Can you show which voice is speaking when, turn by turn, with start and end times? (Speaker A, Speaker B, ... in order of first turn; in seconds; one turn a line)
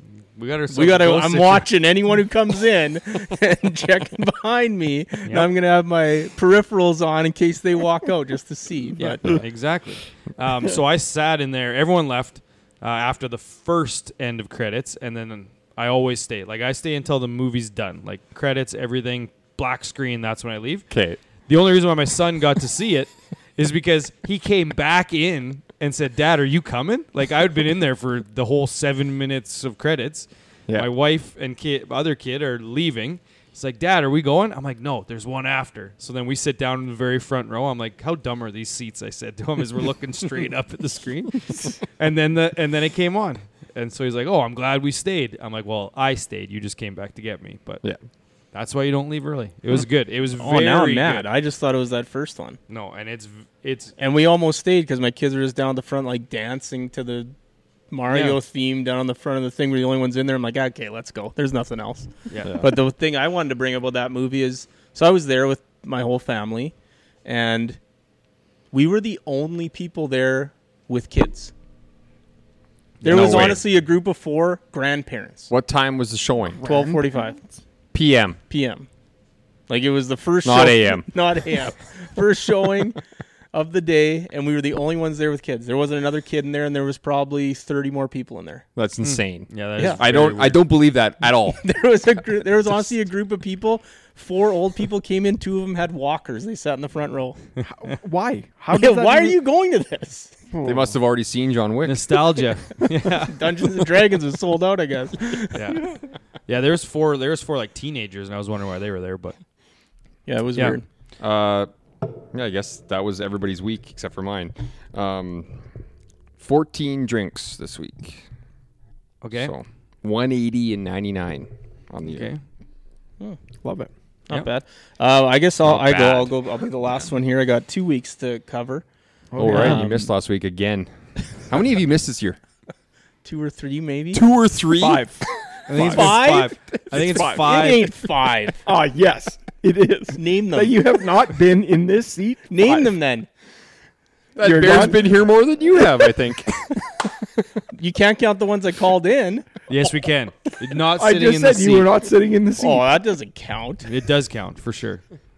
Speaker A: 0.3-1.7
Speaker B: 0.7-9.4
Speaker A: 9.0-20.9
Speaker C: 20.9-21.2
Speaker A: 21.5-47.8
Speaker A: 48.5-51.3
Speaker B: 50.4-52.6
Speaker A: 52.7-53.9
Speaker B: 54.0-57.3
Speaker B: 57.9-67.8
Speaker A: 58.1-58.4
Speaker A: 62.3-62.7
Speaker C: 62.4-62.7
Speaker B: 68.7-71.5
Speaker A: 73.0-73.6
Speaker B: 73.0-75.5
Speaker C: 73.0-73.6
Speaker C: 75.5-76.6
Speaker D: 76.5-77.6
Speaker B: 76.6-77.4
Speaker C: 77.9-78.4
Speaker B: 78.5-78.9
Speaker B: 79.7-83.0
Speaker C: 80.4-81.1
Speaker B: 83.5-88.7
Speaker C: 88.8-91.8
Speaker A: 89.0-90.7
Speaker B: 91.5-97.4
Speaker D: 97.7-99.4
Speaker B: 98.7-100.4
Speaker D: 100.5-101.0
Speaker C: 100.6-102.2
Speaker A: 101.8-103.9
Speaker B: 103.2-106.0
Speaker A: 105.5-109.4
Speaker B: 110.3-110.8
Speaker C: 111.2-115.6
Speaker C: 116.4-118.2
Speaker A: 119.2-119.5
Speaker C: 119.3-122.3
Speaker A: 122.1-122.4
Speaker D: 123.6-123.9
Speaker B: 124.3-128.8
Speaker C: 125.6-126.3
Speaker D: 129.3-129.8
Speaker C: 129.4-132.4
Speaker B: 129.5-130.1
Speaker B: 133.2-134.2
Speaker C: 134.1-135.1
Speaker D: 134.8-137.5
Speaker A: 135.7-137.9
Speaker B: 135.8-138.7
Speaker D: 138.7-142.9
Speaker B: 140.1-140.8
Speaker B: 142.5-143.3
Speaker C: 144.3-146.9
Speaker D: 144.4-145.1
Speaker B: 147.7-149.7
Speaker A: 149.7-151.9
Speaker D: 150.9-152.9
Speaker B: 152.6-153.9
Speaker A: 153.8-155.0